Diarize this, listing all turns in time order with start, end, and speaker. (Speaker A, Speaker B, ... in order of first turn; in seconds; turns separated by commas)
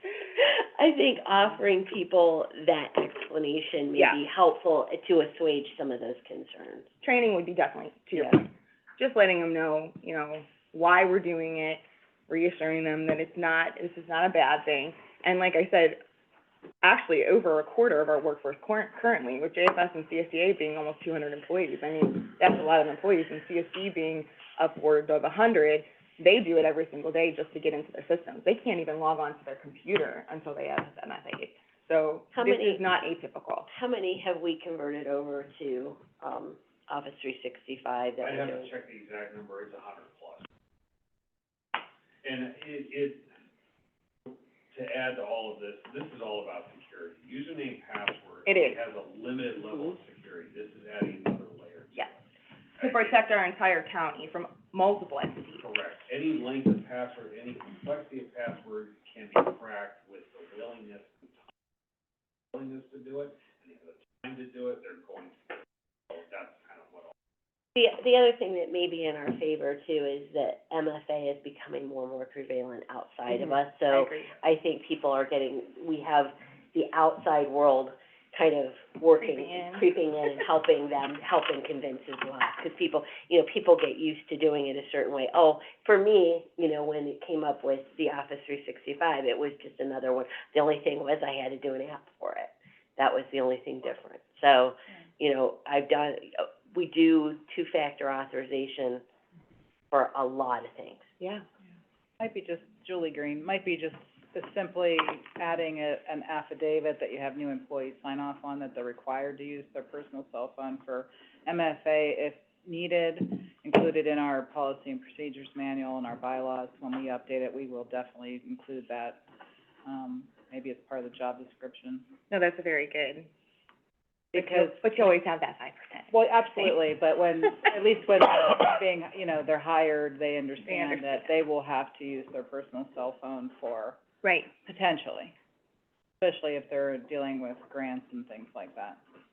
Speaker A: 0.3-6.9, Speaker B: 3.9-4.2, Speaker B: 7.0-16.0, Speaker B: 16.8-33.7, Speaker A: 32.3-32.8, Speaker A: 33.7-38.7, Speaker C: 38.2-40.4, Speaker C: 42.2-43.3, Speaker C: 44.3-52.2, Speaker B: 48.5-48.8, Speaker C: 52.8-53.2, Speaker B: 52.8-55.6, Speaker C: 55.6-61.4, Speaker C: 62.5-65.4, Speaker C: 66.1-67.1, Speaker A: 67.7-99.0, Speaker B: 73.3-74.4, Speaker B: 79.2-79.9, Speaker A: 99.9-101.1, Speaker B: 101.2-101.5, Speaker D: 102.2-119.2, Speaker D: 119.8-122.1, Speaker B: 122.3-123.3, Speaker D: 124.3-125.2, Speaker B: 124.3-126.7, Speaker D: 126.1-134.0, Speaker B: 130.6-131.3, Speaker B: 134.2-134.5, Speaker D: 134.7-135.3, Speaker D: 136.2-139.0